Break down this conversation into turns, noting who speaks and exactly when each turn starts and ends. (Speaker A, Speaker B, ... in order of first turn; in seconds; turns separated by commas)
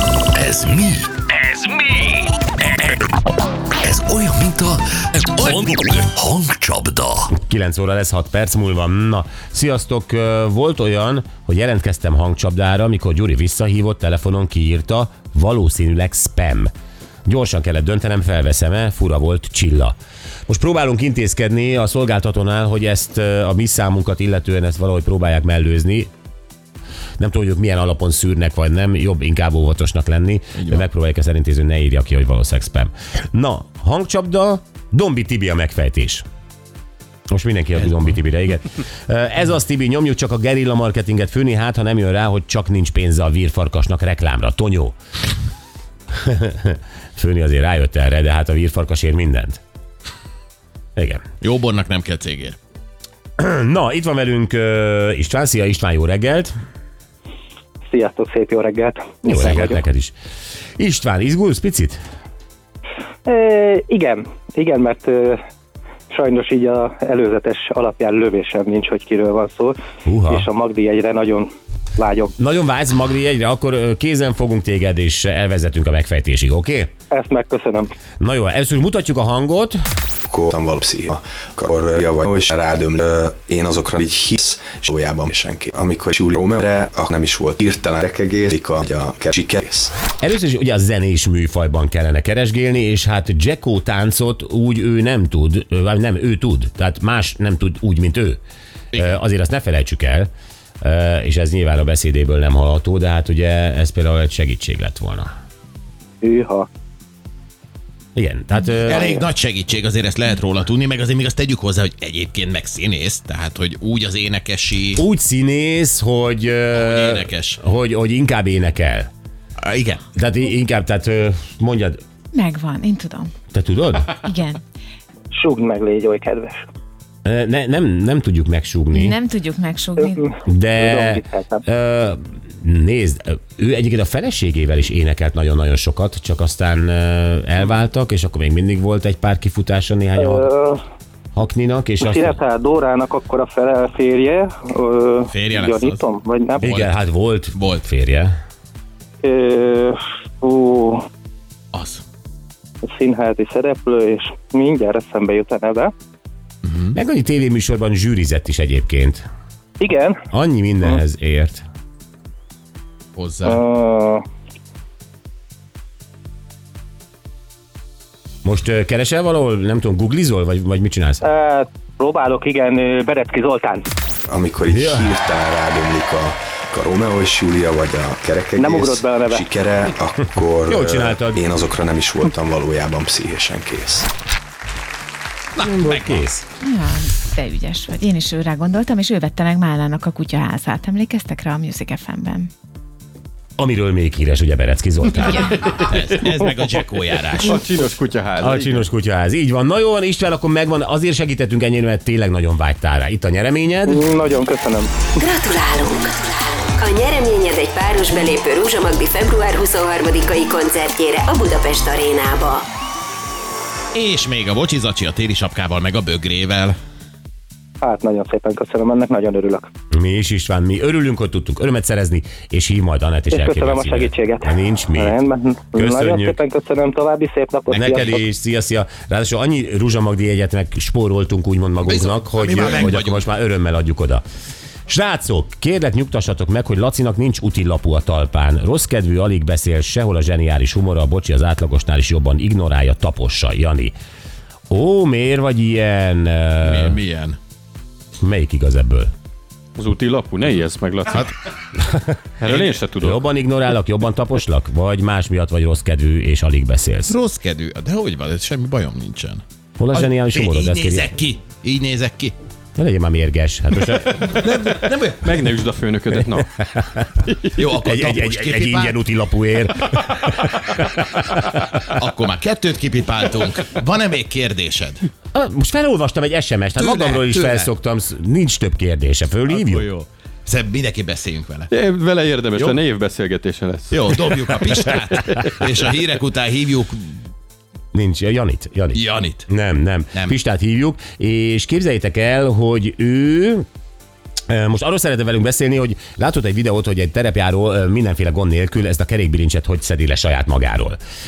Speaker A: 0.4-1.9, Speaker A: 3.9-7.3, Speaker B: 7.3-16.7, Speaker B: 17.3-20.0, Speaker B: 20.5-26.1, Speaker B: 27.2-36.2, Speaker B: 37.3-45.0, Speaker B: 46.2-49.6, Speaker B: 51.0-51.2, Speaker C: 51.4-52.6, Speaker B: 53.4-56.5, Speaker D: 57.9-59.8, Speaker B: 59.2-60.1, Speaker B: 60.8-62.0, Speaker D: 63.3-65.4, Speaker D: 66.1-69.8, Speaker B: 70.1-70.5, Speaker D: 70.3-72.3, Speaker B: 72.4-76.9, Speaker D: 77.1-77.9, Speaker B: 78.2-79.8, Speaker E: 80.3-89.9, Speaker B: 90.2-98.4, Speaker B: 99.0-100.3, Speaker B: 100.8-105.3, Speaker D: 106.2-106.7, Speaker B: 108.2-109.2, Speaker C: 108.8-115.0, Speaker B: 115.0-119.1, Speaker C: 116.7-117.6, Speaker C: 119.6-120.0, Speaker B: 120.1-122.0, Speaker F: 122.3-123.3, Speaker B: 123.5-124.1, Speaker F: 124.2-124.6, Speaker D: 125.3-126.7, Speaker B: 127.2-129.2, Speaker F: 128.9-130.3, Speaker B: 130.5-140.5, Speaker D: 130.8-131.6, Speaker D: 140.2-140.8, Speaker B: 141.3-142.4, Speaker D: 142.0-146.7, Speaker C: 145.3-146.0, Speaker B: 146.6-148.3, Speaker C: 146.6-147.0, Speaker C: 147.6-147.8, Speaker D: 149.2-151.1, Speaker C: 151.7-152.0, Speaker D: 152.8-155.9, Speaker C: 156.7-156.9, Speaker B: 156.9-159.2, Speaker D: 159.8-160.2, Speaker B: 160.3-161.6, Speaker C: 163.2-163.6, Speaker D: 163.4-164.2, Speaker B: 168.4-171.2, Speaker D: 171.2-173.9, Speaker E: 174.3-184.1, Speaker B: 174.7-175.1, Speaker D: 178.6-179.4, Speaker B: 180.7-181.4, Speaker C: 185.6-186.2, Speaker B: 185.6-186.4, Speaker F: 186.6-192.5, Speaker B: 193.6-195.5, Speaker C: 195.8-197.6, Speaker G: 197.4-198.9, Speaker B: 198.4-204.1, Speaker D: 203.9-204.9, Speaker H: 205.2-212.7, Speaker C: 213.9-216.8, Speaker D: 217.8-219.7, Speaker B: 219.9-225.2, Speaker D: 223.3-228.2, Speaker B: 225.8-226.4, Speaker B: 227.7-234.2, Speaker C: 231.8-233.3, Speaker B: 234.9-243.9, Speaker B: 244.7-247.0, Speaker C: 246.6-247.4, Speaker B: 248.2-249.1, Speaker G: 249.8-251.3, Speaker G: 252.4-253.2, Speaker C: 252.4-252.8, Speaker B: 253.0-257.1, Speaker C: 257.1-262.3, Speaker B: 259.8-261.2, Speaker B: 262.8-264.3, Speaker C: 264.2-265.3, Speaker G: 265.2-266.5, Speaker B: 266.6-267.1, Speaker C: 267.6-269.0, Speaker B: 267.8-271.3, Speaker C: 271.9-275.0, Speaker B: 275.3-279.9, Speaker C: 276.8-277.7, Speaker C: 279.5-281.7, Speaker G: 281.7-285.4, Speaker C: 282.6-282.8, Speaker C: 283.9-287.2, Speaker B: 287.9-293.6, Speaker C: 288.9-289.5, Speaker B: 294.5-301.0